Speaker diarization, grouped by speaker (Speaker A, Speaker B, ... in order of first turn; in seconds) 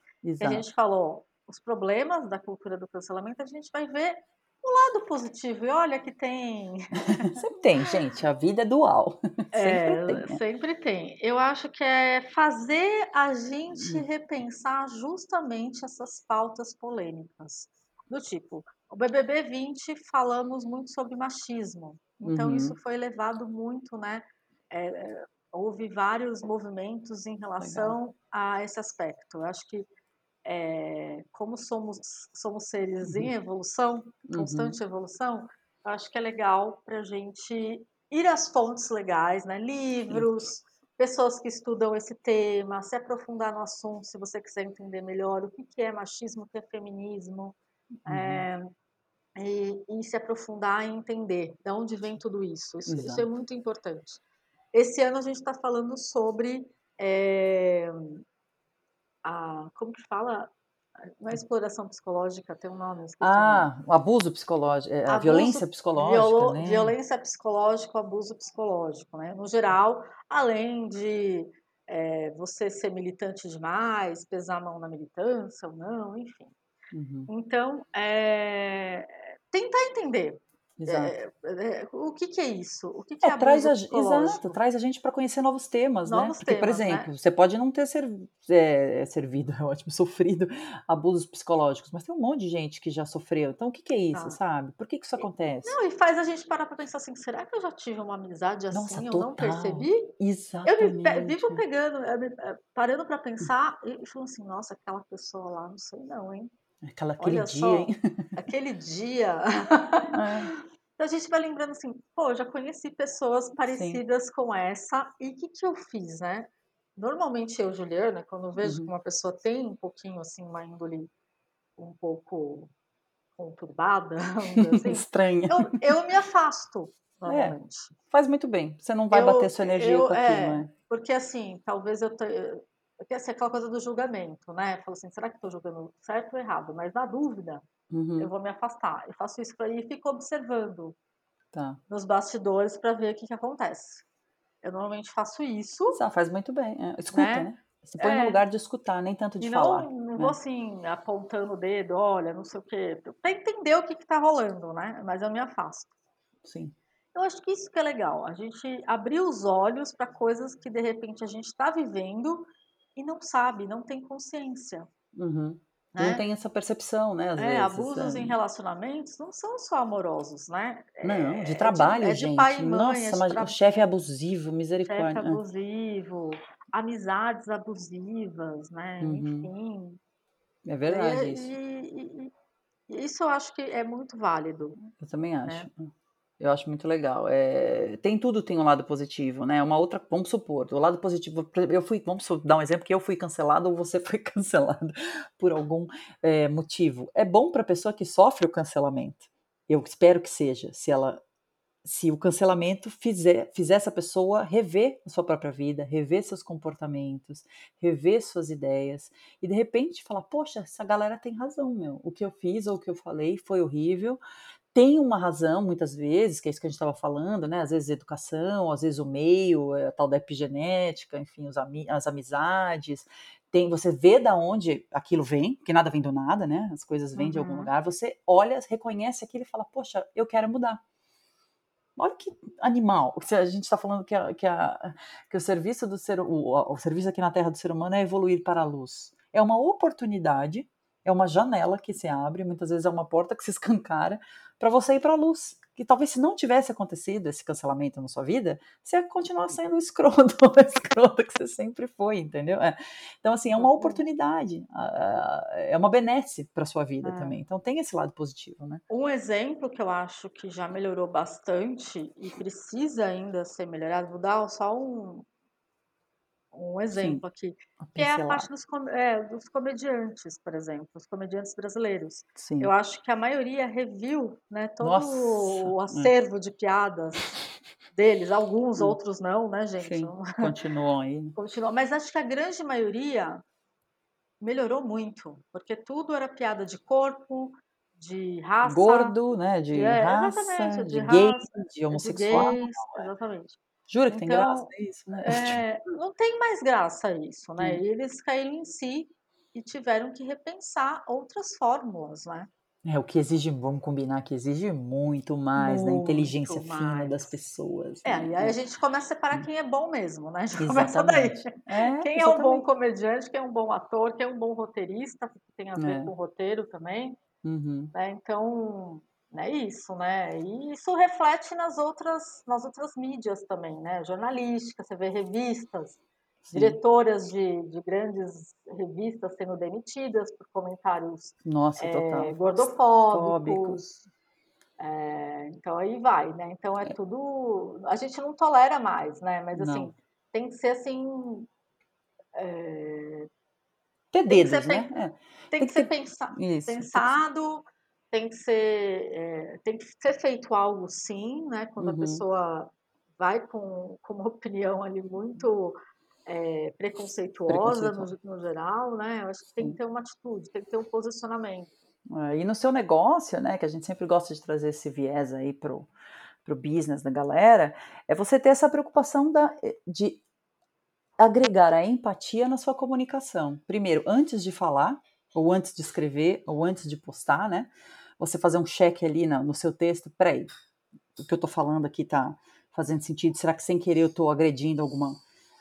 Speaker A: 0.2-0.6, 7.1-10.4, 13.8-14.0, 22.2-22.8, 27.6-27.9, 34.3-34.7, 48.0-48.4, 52.9-53.2, 63.2-66.9, 76.9-77.3, 80.8-81.2, 83.2-95.8, 98.7-101.6, 106.8-108.3, 110.1-110.5, 113.7-114.0, 118.6-118.9, 124.5-125.8, 127.3-127.5, 128.1-130.7, 137.9-138.3, 141.5-141.8, 145.9-150.3, 156.4-156.8, 165.1-168.3, 171.0-175.4, 179.0-179.5, 180.7-181.5, 185.0-201.2, 201.8-214.2, 214.7-230.8, 231.9-258.8, 266.9-267.2, 267.8-268.5, 272.4-272.7, 274.8-276.1, 279.8-281.4, 288.6-293.1, 293.9-295.6, 302.9-308.6, 310.6-312.6, 315.8-316.1, 317.4-317.9, 326.5-326.8, 331.4-333.8, 339.5-339.9, 344.1-347.2, 351.8-352.2, 357.5-358.1, 362.1-365.9, 366.4-370.2, 371.2-380.5, 381.2-385.2
Speaker B: 0.4-7.4, 9.5-29.9, 30.4-48.7, 49.4-54.2, 54.7-58.2, 59.2-60.5, 61.0-63.7, 65.1-76.5, 77.3-84.6, 86.1-87.1, 95.2-100.1, 100.6-106.5, 107.2-121.1, 121.8-122.7, 123.4-127.9, 129.1-137.6, 138.2-140.9, 141.9-144.0, 144.6-146.0, 147.1-147.5, 148.0-148.4, 149.4-155.9, 157.1-164.9, 165.9-166.2, 167.4-173.8, 174.9-180.0, 180.8-182.3, 182.9-184.8, 227.2-227.7, 253.5-254.0, 257.0-257.4, 258.9-265.3, 266.5-277.3, 277.9-280.5, 281.4-283.4, 284.4-289.1, 289.7-293.6, 294.1-294.7, 295.2-302.5, 305.6-307.3, 308.0-317.2, 317.9-326.0, 326.5-334.1, 334.8-341.5, 342.3-343.3, 344.3-344.9, 345.5-361.7